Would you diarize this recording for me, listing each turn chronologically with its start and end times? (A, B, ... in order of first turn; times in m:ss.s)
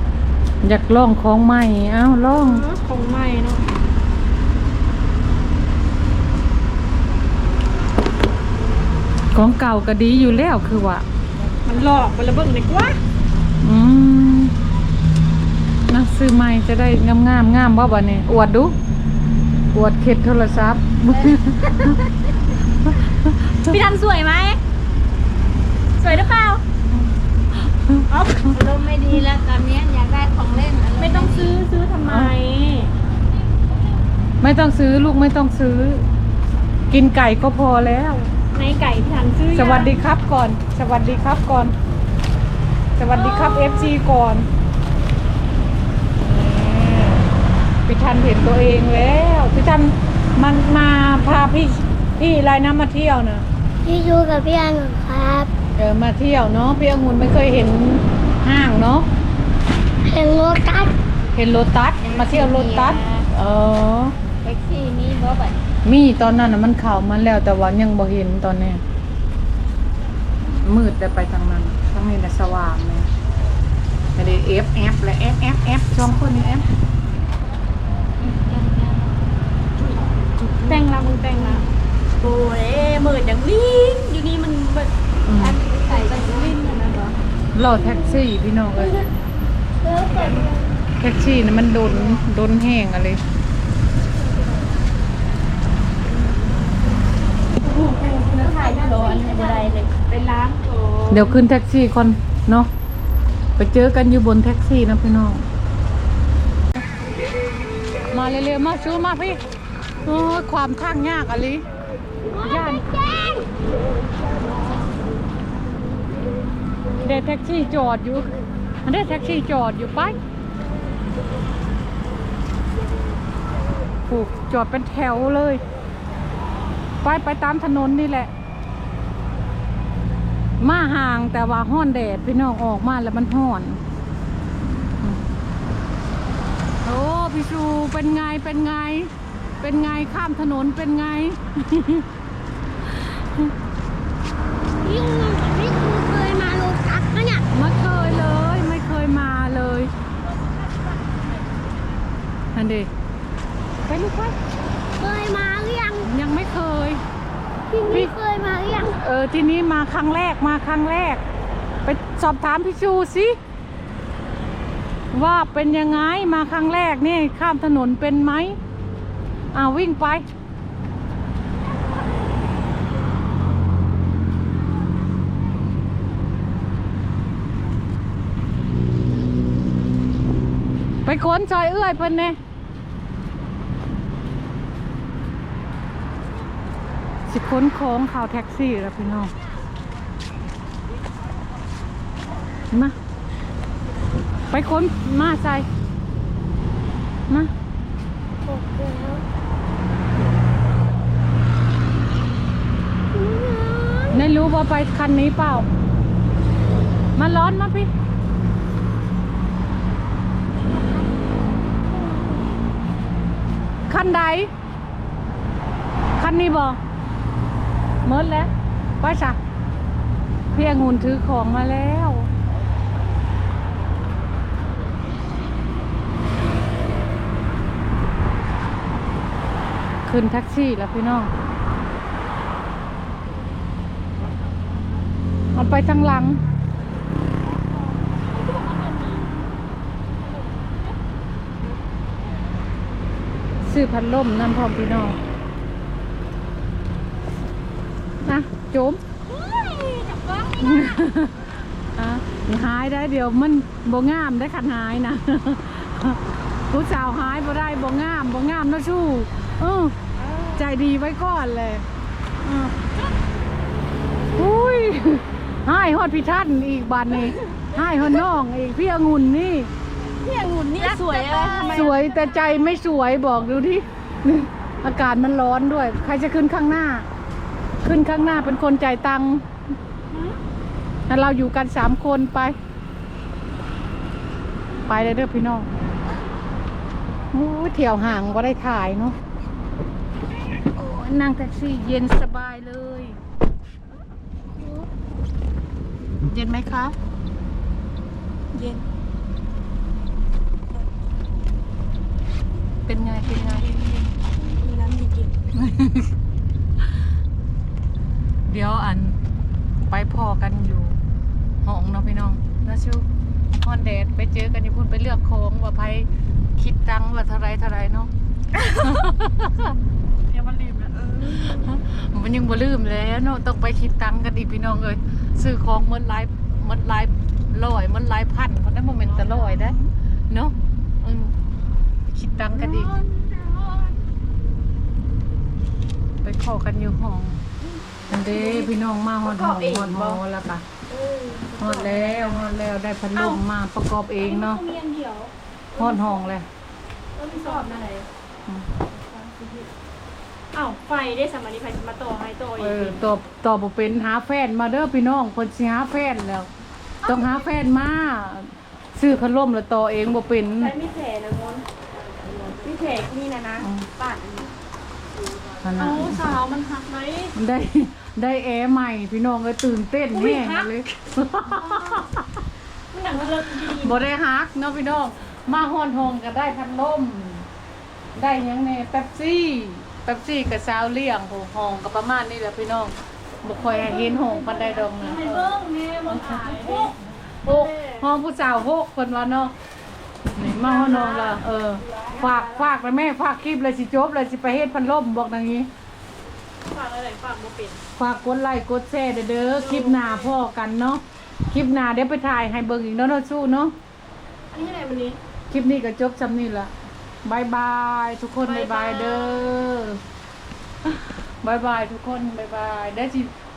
0:00.6-0:02.6 A
0:02.3-0:03.6 B
0:09.3-0:11.0 A
0:11.7-0:13.0 B
0:13.6-0:14.5 A
0:15.9-0:18.8 A
0:19.7-0:22.0 A
0:23.0-0:23.8 A
0:23.6-0:24.6 B
0:26.0-0:26.6 B
0:26.9-0:28.1 A
0:28.1-0:28.7 B
0:28.5-0:31.6 C
0:31.0-0:32.9 B
0:32.1-0:32.3 A
0:34.4-0:36.0 A
0:36.9-0:38.3 A
0:38.5-0:40.0 B
0:39.5-0:41.8 A
0:43.0-0:44.5 A
0:43.1-0:44.0 B
0:46.2-0:47.3 A
0:47.9-0:53.4 A
0:53.8-0:55.5 C
0:55.8-0:59.1 A
1:00.0-1:01.0 C
1:01.3-1:04.2 A
1:02.1-1:03.3 C
1:04.4-1:05.6 C
1:05.8-1:08.8 A
1:10.6-1:13.1 A
1:14.2-1:16.7 A
1:18.2-1:19.1 C
1:20.4-1:20.8 A
1:20.7-1:21.7 B
1:22.2-1:27.2 B
1:25.3-1:25.6 A
1:25.7-1:26.6 C
1:27.6-1:29.0 A
1:27.9-1:28.2 C
1:28.8-1:29.1 C
1:29.8-1:30.6 C
1:30.0-1:30.6 B
1:31.0-1:33.2 A
1:37.6-1:41.4 B
1:38.1-1:39.9 C
1:41.1-1:42.7 A
1:43.6-1:45.4 A
1:48.1-1:49.4 A
1:50.0-1:51.7 A
1:52.3-1:53.5 C
1:52.4-1:52.9 A
1:57.0-2:00.2 A
2:04.1-2:05.6 A
2:07.0-2:08.3 A
2:10.6-2:13.8 A
2:16.8-2:22.1 A
2:22.8-2:23.5 A
2:24.8-2:27.4 C
2:27.5-2:29.9 A
2:30.2-2:31.8 B
2:32.6-2:32.9 A
2:33.9-2:34.4 A
2:35.0-2:36.1 C
2:36.0-2:37.0 A
2:37.7-2:39.0 C
2:38.8-2:41.2 A
2:41.8-2:43.4 A
2:45.1-2:48.6 A
2:49.5-2:50.3 A
3:01.1-3:02.4 A
3:07.3-3:09.3 A
3:12.7-3:13.0 A
3:14.5-3:15.7 A
3:18.5-3:19.2 C
3:23.1-3:24.2 C
3:24.1-3:25.7 A
3:27.2-3:27.9 A
3:31.9-3:32.5 C
3:33.9-3:34.5 A
3:36.2-3:36.8 A
3:38.0-3:38.5 A
3:39.0-3:39.4 A
3:40.5-3:42.3 A
3:50.1-3:51.3 A
3:55.5-3:56.4 A
3:58.0-3:59.3 B
4:03.6-4:05.2 A
4:08.2-4:09.0 A
4:09.3-4:10.8 B
4:10.6-4:11.4 A
4:12.0-4:20.0 A
4:20.2-4:20.6 B
4:20.6-4:21.8 A
4:24.4-4:29.7 A
4:30.2-4:32.0 B
4:30.4-4:31.9 C
4:31.7-4:37.1 A
4:37.8-4:39.4 A
4:40.1-4:40.4 B
4:41.1-4:42.6 A
4:44.9-4:45.7 A
4:47.3-4:49.2 A
4:50.7-4:53.2 A
4:56.2-4:57.0 A
5:02.9-5:03.7 A
5:03.2-5:04.1 B
5:04.6-5:05.3 B
5:05.5-5:06.1 A
5:08.5-5:09.2 A
5:09.9-5:11.0 A
5:11.6-5:13.1 A
5:13.6-5:18.1 A
5:18.7-5:19.7 A
5:20.3-5:21.1 B
5:21.2-5:29.8 A
5:29.1-5:29.8 B
5:30.3-5:31.4 A
5:32.1-5:33.0 A
5:32.9-5:33.7 B
5:36.2-5:37.4 A
5:38.1-5:40.6 A
5:38.3-5:38.7 B
5:39.2-5:40.2 B
5:40.9-5:42.5 B
5:41.6-5:44.6 A
5:43.1-5:43.4 B
5:44.2-5:46.3 B
5:45.8-5:46.5 A
5:47.2-5:48.1 B
5:47.3-5:47.9 C
5:49.1-5:49.5 B
5:50.5-5:53.0 B
5:52.6-5:56.5 A
5:57.0-5:57.4 B
5:57.0-6:00.8 A
6:00.6-6:01.6 B
6:02.4-6:04.5 B
6:03.6-6:03.9 A
6:05.6-6:06.3 A
6:05.8-6:07.4 B
6:07.4-6:12.2 A
6:10.1-6:10.8 B
6:11.5-6:12.0 B
6:12.9-6:14.0 B
6:13.6-6:17.5 A
6:18.2-6:25.5 A
6:23.8-6:24.7 C
6:24.9-6:27.0 B
6:26.1-6:26.9 A
6:27.4-6:29.5 A
6:27.5-6:28.1 B
6:30.4-6:35.7 A
6:30.5-6:32.6 B
6:36.6-6:37.8 B
6:38.0-6:43.8 A
6:39.6-6:40.3 B
6:44.5-6:45.2 B
6:45.5-6:46.7 A
6:47.2-6:50.0 A
6:48.4-6:49.5 B
6:50.8-6:53.3 A